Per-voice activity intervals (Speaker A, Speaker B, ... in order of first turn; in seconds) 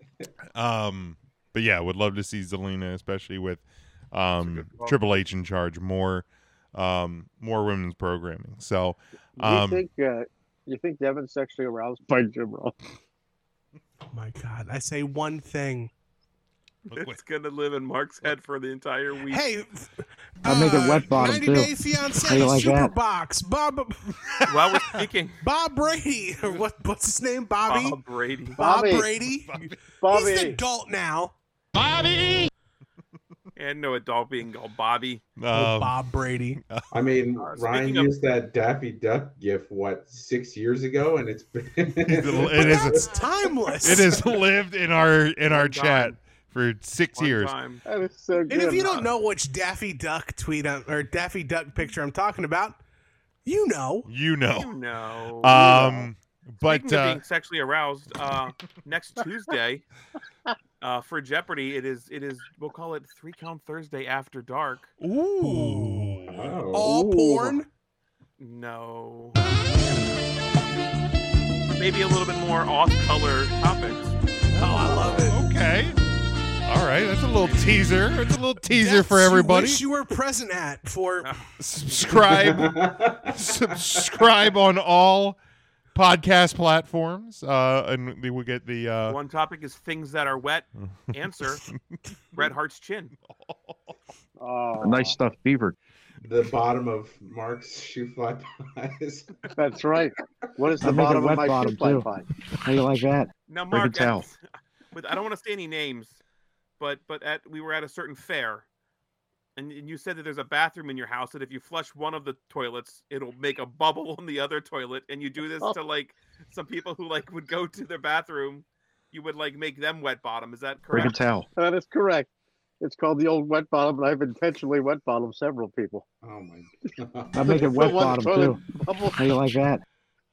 Speaker A: 0.6-9.8, 16.9-17.2, 24.3-25.0, 29.2-29.8, 31.8-32.5, 35.4-36.0, 36.6-36.9, 42.1-43.0, 43.8-47.5, 54.1-54.7, 55.4-57.2, 65.0-66.6, 74.6-76.0, 76.7-79.8, 81.6-82.8, 83.3-85.4, 86.0-89.2, 93.2-94.0
Speaker B: 4.4-5.0, 16.9-19.4, 24.5-25.4, 27.7-28.6, 33.6-35.2, 37.4-38.1, 45.5-46.2, 47.1-47.8, 54.5-55.8, 56.6-59.9, 60.8-64.9, 68.4-69.4, 71.8-74.1, 77.4-77.8, 89.1-91.7, 92.3-93.1, 103.5-104.4, 104.9-106.2, 106.8-108.7, 109.6-121.2
Speaker C: 9.4-12.8, 28.6-29.1, 30.0-30.6, 47.9-49.1, 55.6-56.1, 66.9-67.6, 94.4-95.2, 99.6-102.2, 121.6-122.3, 122.8-126.0, 127.4-129.2
Speaker D: 14.1-15.9, 19.3-19.9, 20.4-24.1, 25.4-28.0, 28.6-31.3, 35.5-36.6, 42.4-44.2, 48.5-52.8, 53.5-54.1, 65.4-66.2, 66.7-67.7, 74.5-75.4, 78.7-81.3
Speaker E: 20.5-21.7, 22.3-22.9, 100.8-102.1, 102.6-104.2, 120.9-121.5, 127.3-128.6, 129.1-129.8
Speaker F: 36.9-43.2, 66.3-67.0, 82.1-84.0, 96.2-99.5, 100.8-101.4, 126.2-127.9